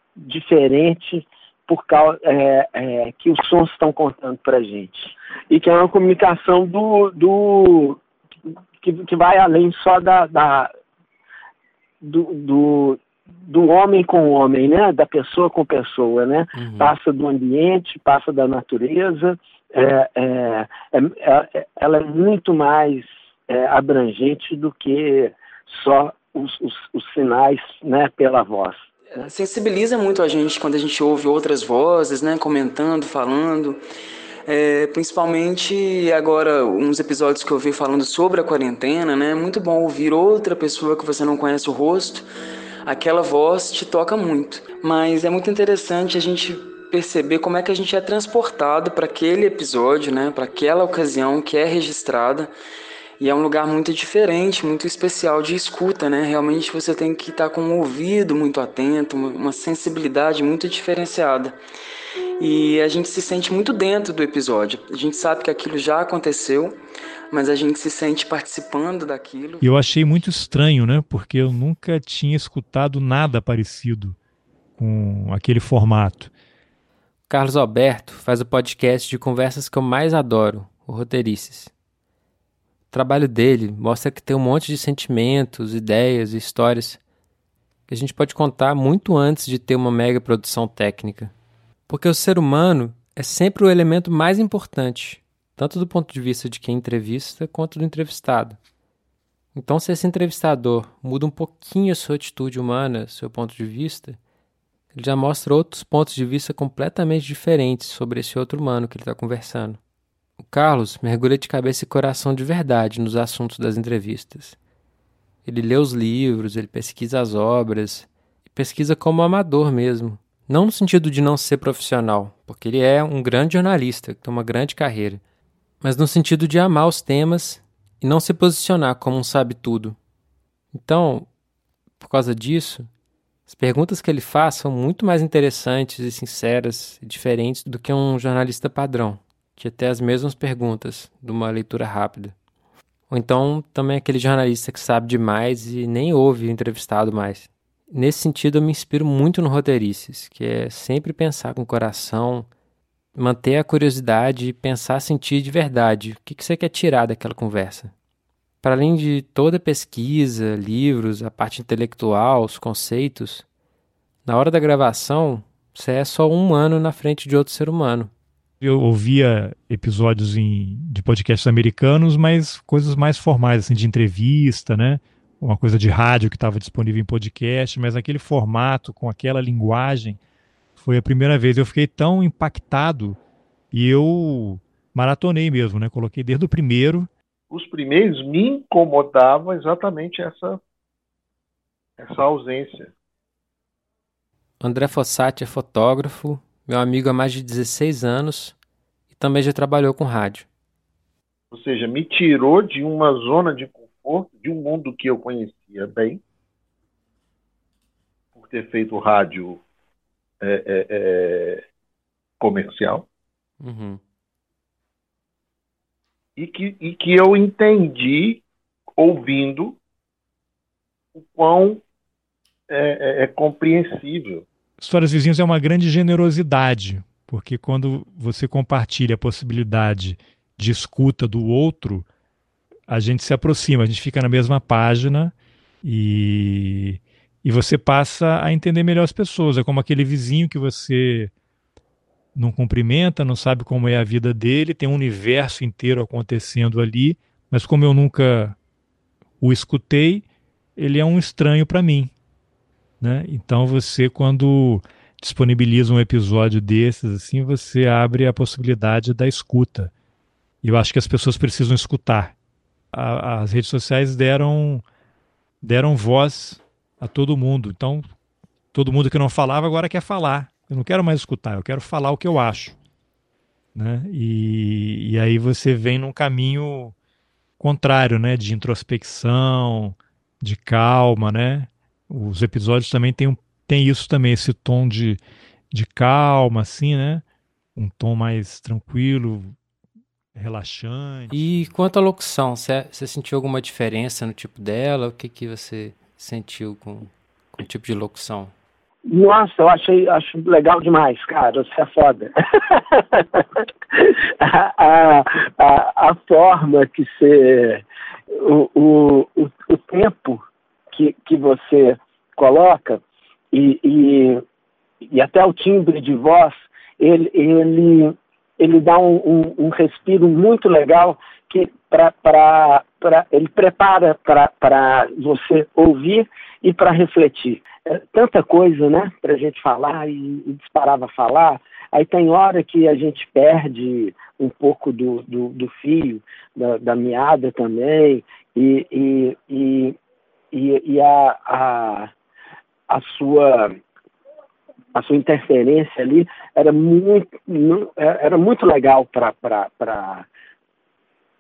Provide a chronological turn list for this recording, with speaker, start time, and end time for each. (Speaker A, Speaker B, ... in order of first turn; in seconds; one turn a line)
Speaker A: 0.2-8.0
Speaker A: 8.8-10.7
Speaker A: 12.0-28.9
Speaker B: 16.5-16.9
Speaker C: 29.1-33.8
Speaker C: 34.5-42.2
Speaker C: 42.8-52.5
Speaker C: 53.2-61.6
Speaker C: 62.4-66.8
Speaker C: 67.3-69.7
Speaker D: 69.6-74.2
Speaker D: 74.8-76.3
Speaker B: 77.3-81.7
Speaker B: 82.9-87.0
Speaker B: 87.9-91.3
Speaker B: 91.9-98.6
Speaker B: 99.5-104.2
Speaker B: 104.9-109.8
Speaker B: 110.4-114.5
Speaker B: 115.4-125.2
Speaker B: 125.8-130.0
Speaker B: 130.7-131.3
Speaker B: 132.0-132.9
Speaker B: 133.5-142.3
Speaker B: 143.1-152.5
Speaker B: 153.2-157.9
Speaker B: 158.6-163.4
Speaker B: 164.2-168.1
Speaker D: 168.6-180.2
Speaker D: 180.8-183.2
Speaker D: 183.7-187.1
Speaker E: 187.5-190.6
Speaker E: 192.0-192.9
Speaker B: 194.6-198.5
Speaker B: 199.1-200.5
Speaker E: 201.5-206.2
Speaker E: 208.3-209.6
Speaker E: 210.4-211.6
Speaker E: 212.4-213.0
Speaker B: 213.6-214.0
Speaker E: 216.4-218.4
Speaker E: 219.0-219.8
Speaker E: 221.1-221.8
Speaker E: 222.7-224.4
Speaker D: 224.8-232.1
Speaker D: 232.9-241.3
Speaker D: 242.3-248.6
Speaker D: 249.4-250.2
Speaker D: 250.8-252.1
Speaker D: 253.0-259.9
Speaker D: 260.6-262.3
Speaker D: 262.9-264.8
Speaker D: 265.6-268.1
Speaker D: 268.7-272.8
Speaker D: 273.7-276.9
Speaker D: 277.6-285.2
Speaker D: 285.7-287.2
Speaker D: 287.8-289.6
Speaker D: 290.3-291.7
Speaker B: 291.3-298.5
Speaker A: 299.1-313.0
Speaker A: 313.5-314.4
Speaker A: 315.1-339.9
Speaker A: 340.5-342.1
Speaker A: 342.9-343.8
Speaker A: 344.9-350.3